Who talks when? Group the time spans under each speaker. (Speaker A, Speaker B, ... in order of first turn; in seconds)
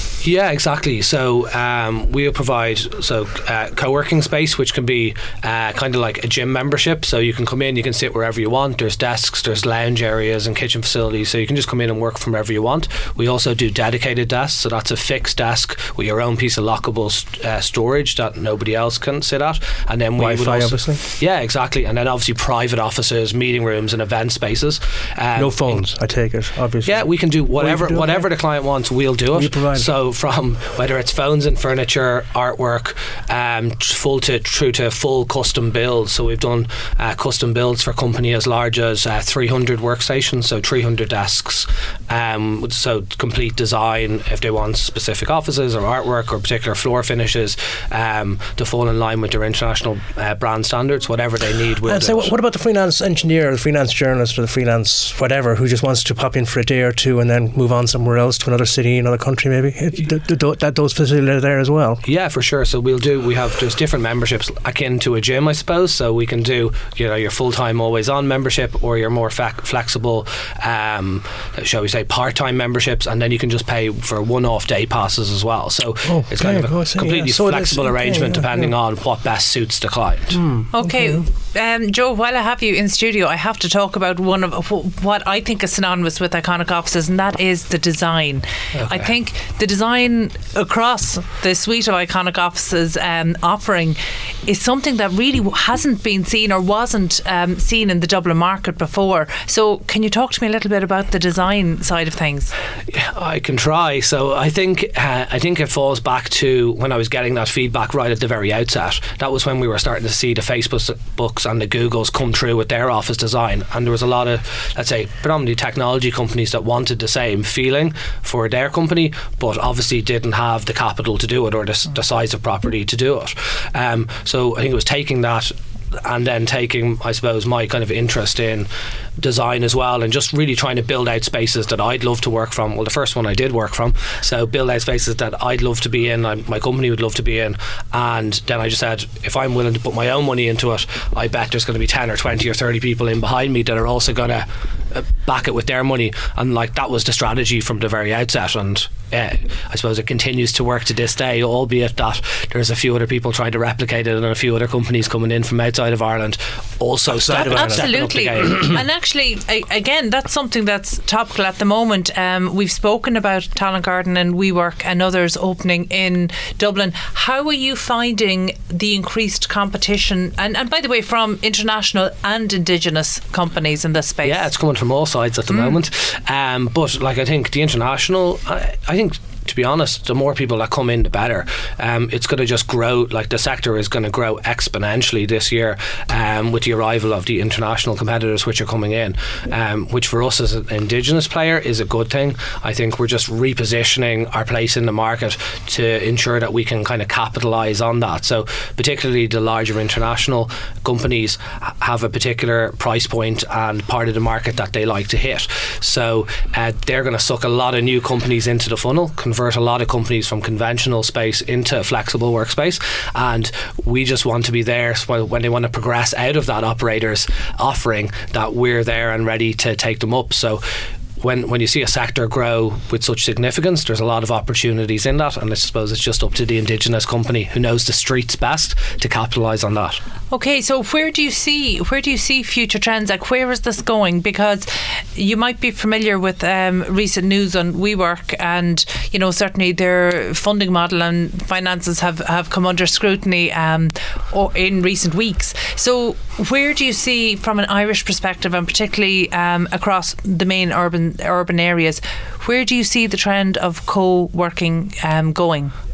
Speaker A: 0.2-25.8, 26.8-52.3, 62.0-80.4, 88.7-89.1, 102.9-158.8, 174.2-220.6, 221.2-230.0
Speaker B: 20.2-21.0, 25.4-28.3, 29.3-29.9, 51.9-62.0, 76.0-78.7, 80.3-81.2, 157.1-157.9
Speaker C: 80.7-102.5, 157.4-174.5, 230.3-255.7